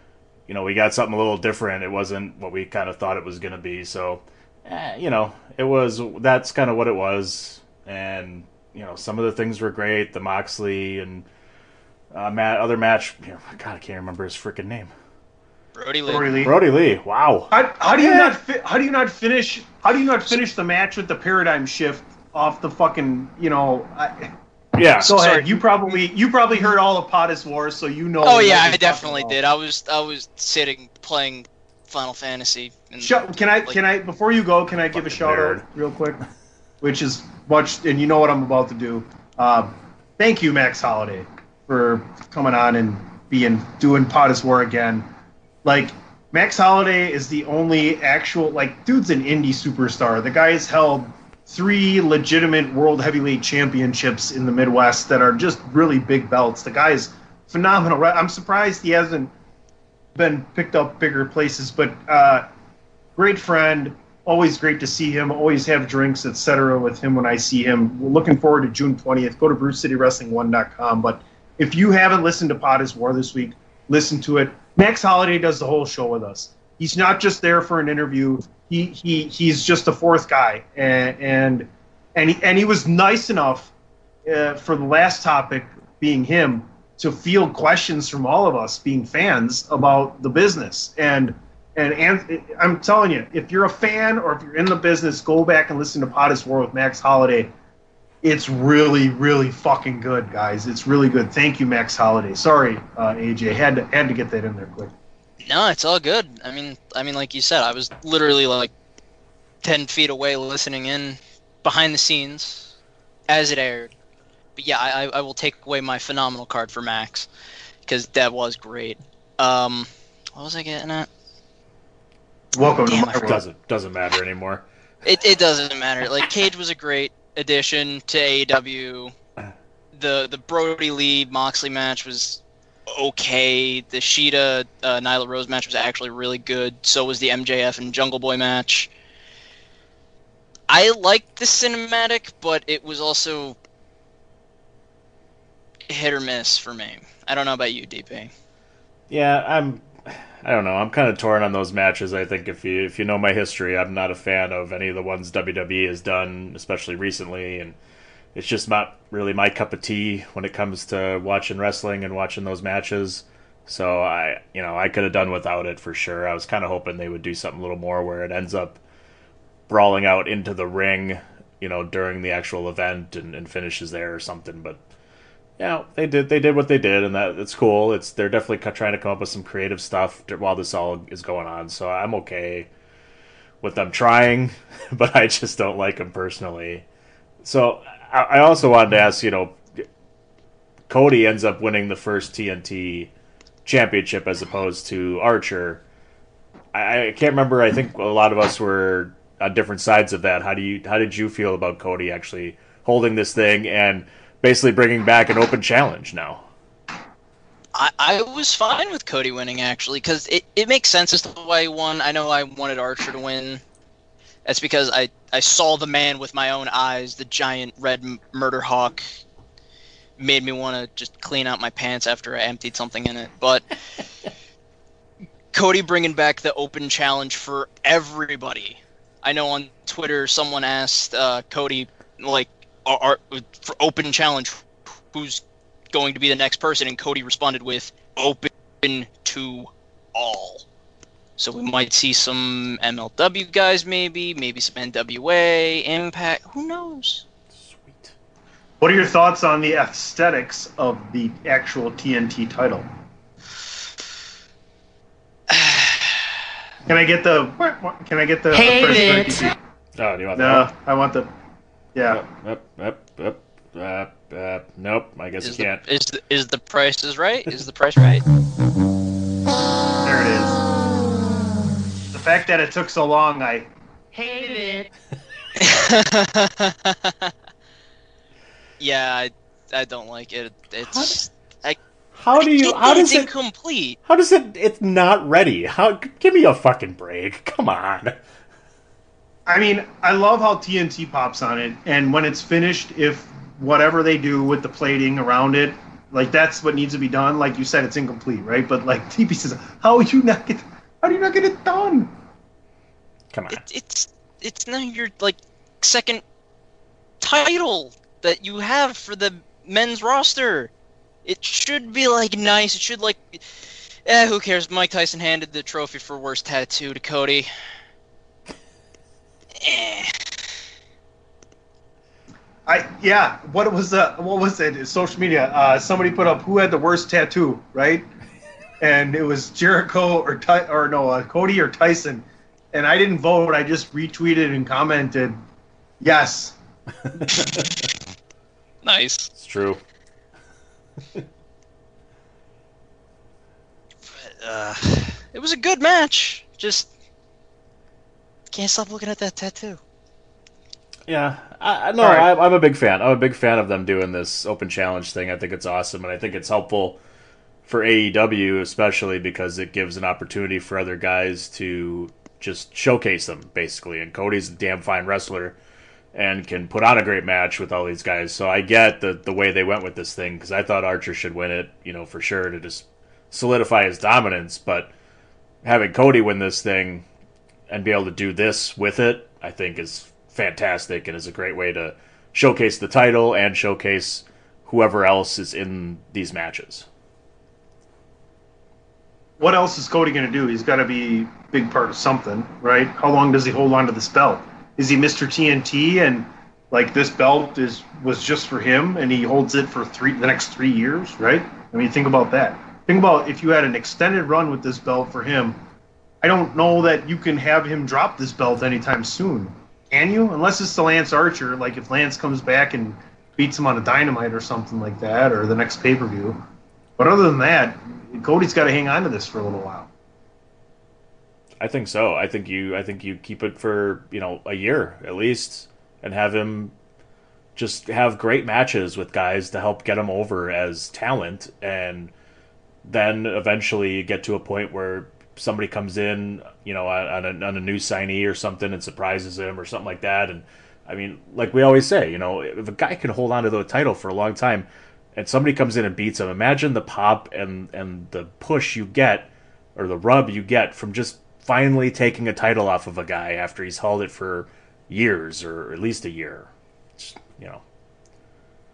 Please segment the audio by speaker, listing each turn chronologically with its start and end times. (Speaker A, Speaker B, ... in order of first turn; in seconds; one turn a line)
Speaker A: 0.5-11.2
Speaker A: 12.1-14.9
Speaker B: 15.8-16.4
Speaker C: 16.1-16.5
Speaker A: 16.4-18.3
Speaker C: 17.5-24.3
Speaker A: 24.8-25.1
Speaker C: 25.0-29.4
Speaker B: 25.0-26.0
Speaker B: 28.2-33.8
Speaker C: 33.0-36.2
Speaker A: 34.9-35.6
Speaker C: 36.8-45.1
Speaker C: 45.6-59.3
Speaker C: 60.1-62.5
Speaker C: 63.1-83.7
Speaker C: 84.2-97.5
Speaker C: 98.2-104.9
Speaker B: 105.4-108.7
Speaker B: 109.6-112.7
Speaker B: 113.3-113.9
Speaker B: 114.5-117.3
Speaker B: 117.8-121.1
Speaker C: 122.5-123.4
Speaker B: 122.9-123.2
Speaker A: 123.2-124.6
Speaker B: 125.0-129.1
Speaker B: 129.9-138.9
Speaker B: 140.7-143.6
Speaker B: 145.9-148.3
Speaker A: 149.1-157.8
Speaker A: 158.3-168.8
Speaker A: 169.7-174.8
Speaker A: 175.6-182.7
Speaker A: 183.6-186.8
Speaker A: 187.4-189.8
Speaker A: 190.9-193.1
Speaker A: 193.6-195.8
Speaker A: 196.7-206.4
Speaker B: 207.7-213.6
Speaker B: 214.4-219.0
Speaker B: 220.2-223.6
Speaker B: 225.5-240.6
Speaker B: 241.4-247.2
Speaker A: 247.5-248.1
Speaker C: 248.8-252.8
Speaker B: 255.5-256.2
Speaker C: 256.9-259.5
Speaker A: 260.0-260.7
Speaker C: 260.3-261.3
Speaker C: 261.9-262.2
Speaker A: 262.1-265.8
Speaker B: 265.4-268.2
Speaker C: 270.0-270.6
Speaker C: 272.1-273.7
Speaker B: 275.6-277.3
Speaker B: 278.8-281.8
Speaker A: 280.8-281.2
Speaker A: 282.2-283.3
Speaker B: 282.4-284.0
Speaker A: 284.1-288.2
Speaker C: 289.5-302.1
Speaker A: 303.3-303.6
Speaker B: 303.5-306.2
Speaker B: 307.2-310.7
Speaker B: 311.2-313.4
Speaker B: 314.1-317.5
Speaker B: 319.6-320.4
Speaker C: 322.7-328.1
Speaker C: 328.8-335.4
Speaker C: 336.0-336.6
Speaker A: 337.2-337.7
Speaker B: 338.8-339.3
Speaker A: 339.4-339.8
Speaker B: 344.1-346.9
Speaker B: 348.5-349.8
Speaker A: 351.1-357.0
Speaker C: 352.0-352.3
Speaker A: 357.6-365.6
Speaker A: 366.1-374.9
Speaker A: 375.6-377.0
Speaker A: 377.7-386.9
Speaker C: 389.4-405.6
Speaker C: 406.2-416.4
Speaker C: 417.0-419.9
Speaker A: 421.6-426.7
Speaker A: 427.6-432.1
Speaker A: 432.8-457.6